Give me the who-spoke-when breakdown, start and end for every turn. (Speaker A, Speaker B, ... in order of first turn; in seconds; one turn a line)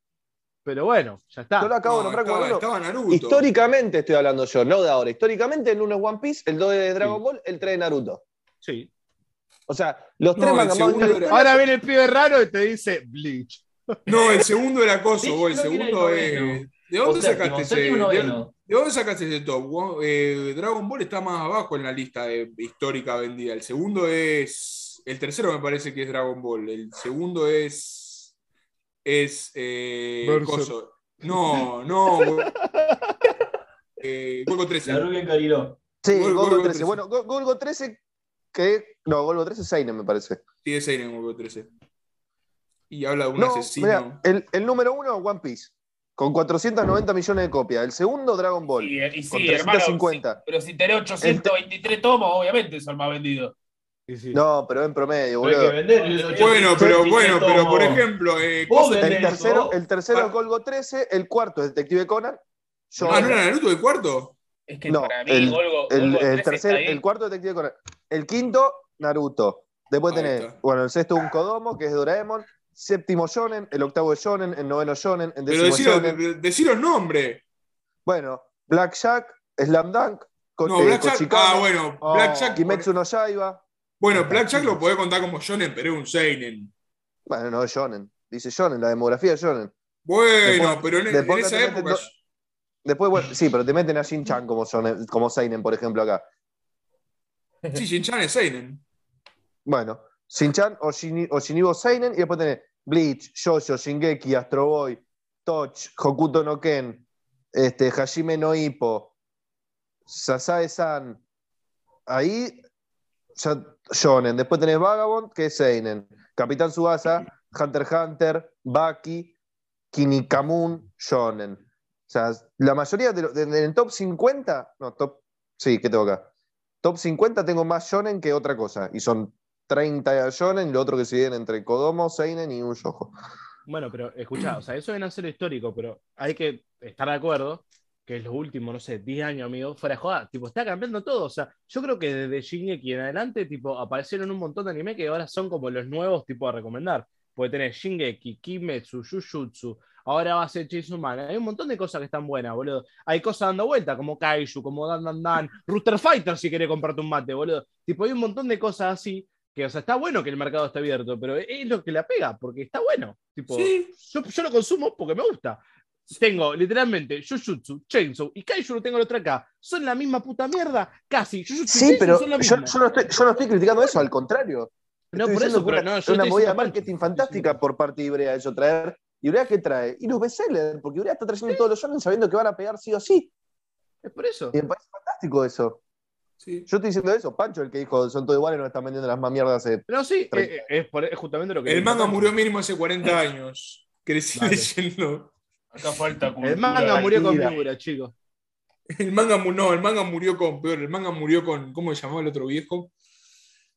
Speaker A: 0.7-1.7
Speaker B: 1.6-8.2
Speaker C: 1.8-3.5
Speaker A: 8.6-8.9
Speaker B: 9.7-11.6
Speaker C: 10.3-11.5
Speaker A: 11.0-14.0
Speaker C: 14.1-28.3
Speaker D: 15.2-18.5
Speaker C: 29.1-32.5
Speaker A: 30.2-30.7
Speaker A: 31.3-33.3
Speaker C: 34.0-35.1
Speaker D: 34.8-35.8
Speaker B: 36.0-38.0
Speaker C: 36.1-37.0
Speaker B: 38.5-40.4
Speaker C: 40.6-41.7
Speaker C: 42.9-44.2
Speaker B: 43.4-50.4
Speaker E: 48.8-53.5
Speaker B: 51.2-51.5
Speaker A: 54.1-54.4
Speaker B: 54.3-55.8
Speaker D: 55.4-58.0
Speaker E: 56.0-56.7
Speaker C: 56.3-59.4
Speaker D: 58.7-59.8
Speaker B: 59.0-63.4
Speaker C: 63.0-64.4
Speaker A: 63.1-63.3
Speaker E: 64.7-67.0
Speaker B: 64.9-76.2
Speaker C: 70.1-70.6
Speaker C: 75.5-77.4
Speaker B: 78.1-81.7
Speaker C: 80.7-82.9
Speaker A: 82.0-82.6
Speaker B: 82.5-83.6
Speaker C: 84.0-86.7
Speaker A: 84.3-84.7
Speaker B: 87.3-89.7
Speaker C: 90.0-92.1
Speaker B: 90.4-92.0
Speaker B: 92.8-96.2
Speaker C: 97.7-98.8
Speaker B: 99.7-109.1
Speaker B: 110.1-111.2
Speaker B: 112.1-112.6
Speaker B: 113.3-119.3
Speaker B: 119.9-126.3
Speaker B: 126.8-133.1
Speaker A: 133.7-172.8
Speaker C: 163.5-163.9
Speaker B: 171.7-183.3
Speaker A: 175.1-177.6
Speaker A: 184.0-184.6
Speaker B: 184.5-185.8
Speaker C: 186.4-186.7
Speaker B: 186.7-190.7
Speaker A: 189.9-192.3
Speaker C: 191.7-195.3
Speaker A: 194.3-194.7
Speaker E: 195.7-197.6
Speaker A: 196.4-198.1
Speaker B: 197.0-197.5
Speaker C: 198.9-202.9